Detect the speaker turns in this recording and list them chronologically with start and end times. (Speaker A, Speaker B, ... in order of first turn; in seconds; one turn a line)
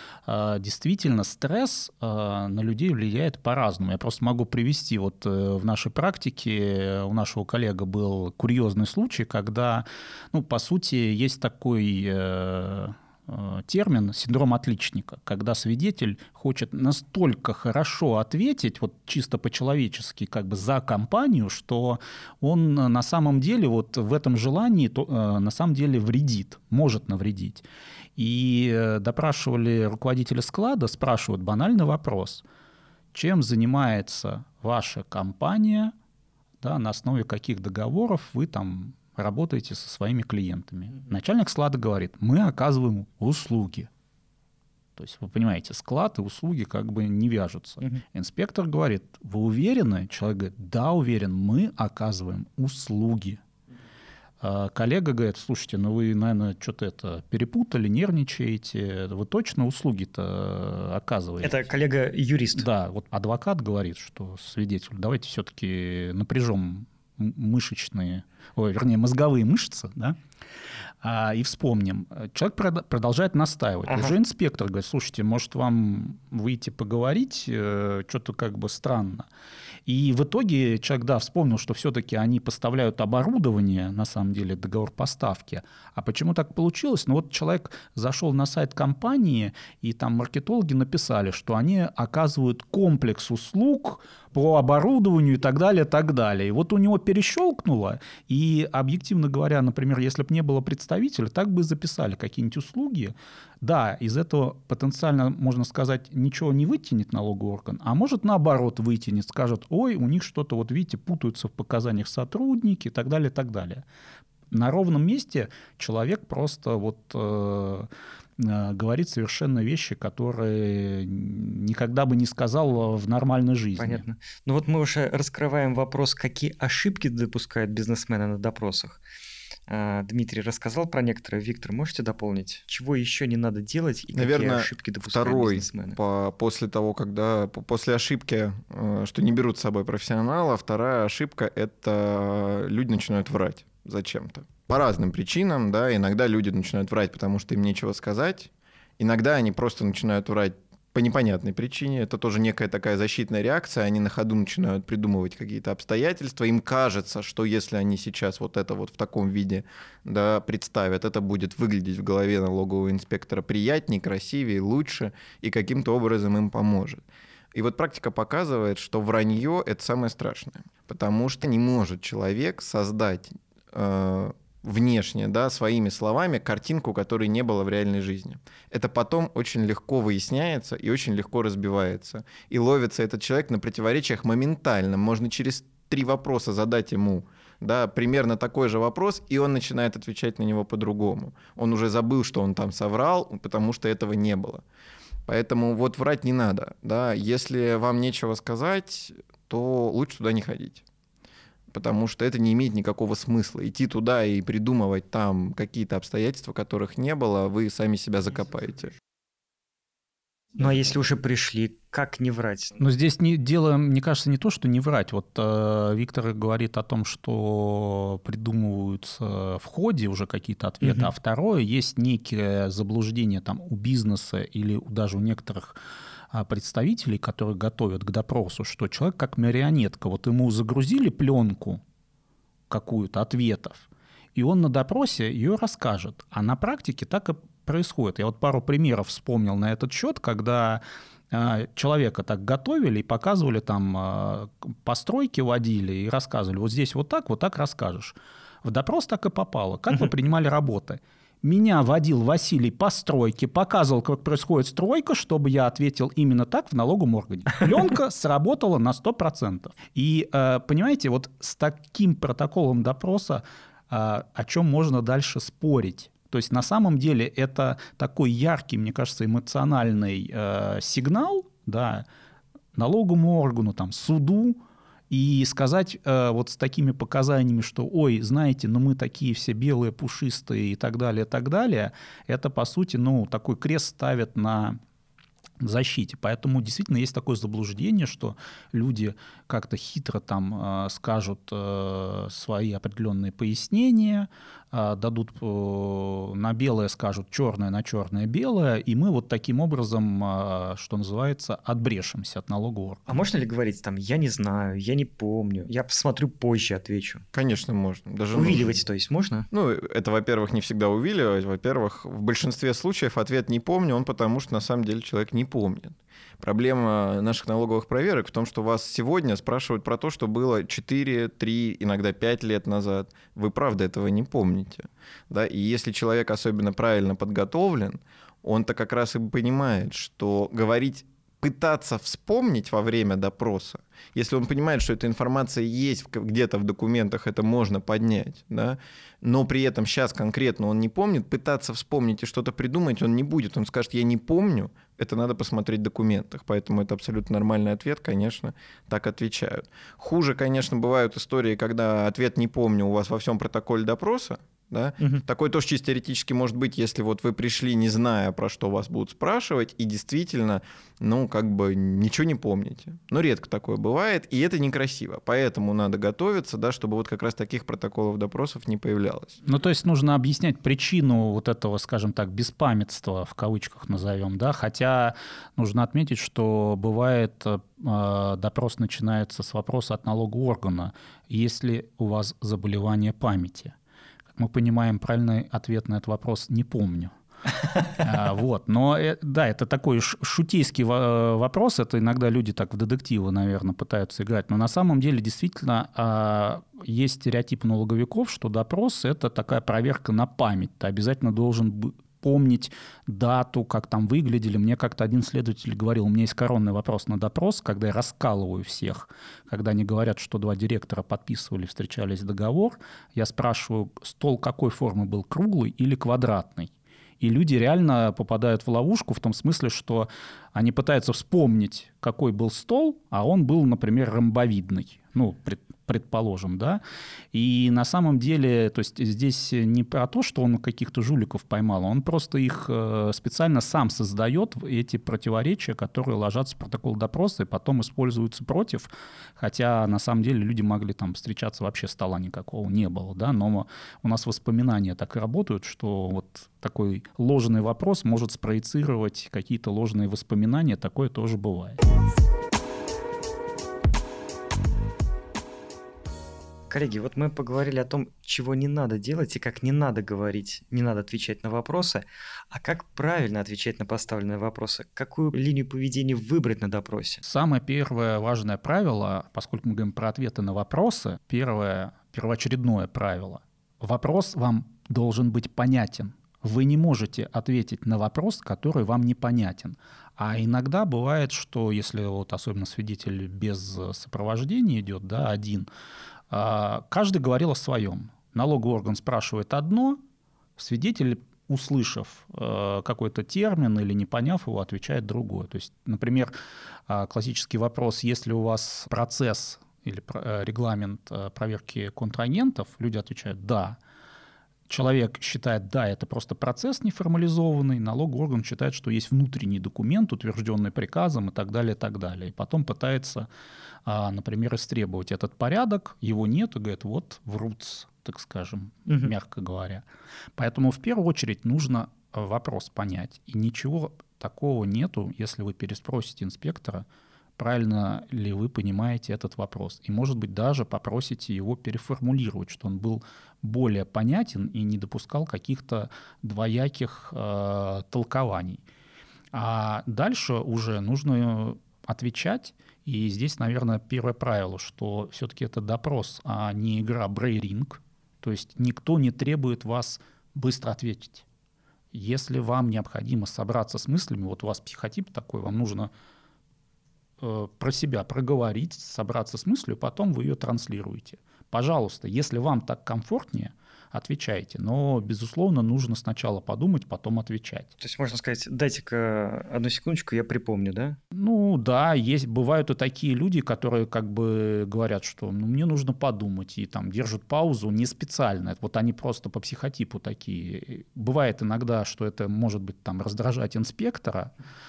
Speaker A: 0.2-27.6
Speaker A: 28.1-32.4
Speaker A: 33.1-35.9
Speaker A: 36.6-43.9
Speaker A: 45.0-53.4
Speaker A: 54.4-61.6
Speaker B: 61.4-62.7
Speaker A: 62.6-70.2
Speaker A: 71.0-79.3
Speaker B: 73.9-74.1
Speaker A: 79.8-113.8
Speaker A: 114.5-124.0
Speaker B: 123.8-129.0
Speaker B: 129.7-136.0
Speaker C: 134.1-194.6
Speaker C: 195.2-200.8
Speaker C: 201.7-208.9
Speaker B: 210.6-212.8
Speaker A: 212.8-225.8
Speaker B: 220.8-221.1
Speaker A: 226.3-231.8
Speaker A: 232.7-272.0
Speaker A: 272.7-284.8
Speaker A: 285.6-303.1
Speaker B: 303.1-307.2
Speaker C: 307.3-308.8
Speaker B: 308.3-309.5
Speaker C: 309.5-369.4
Speaker A: 369.4-383.7
Speaker A: 384.3-387.1
Speaker A: 387.9-426.8
Speaker A: 427.3-451.8
Speaker B: 456.7-467.2
Speaker A: 467.2-485.7
Speaker A: 486.3-490.0
Speaker A: 490.6-496.3
Speaker A: 496.9-503.8
Speaker A: 504.7-513.3
Speaker A: 513.9-519.8
Speaker B: 518.9-519.1
Speaker A: 520.4-526.9
Speaker A: 527.4-538.6
Speaker A: 539.3-551.2
Speaker A: 551.9-555.9
Speaker A: 557.2-567.7
Speaker B: 567.8-571.0
Speaker A: 571.1-584.3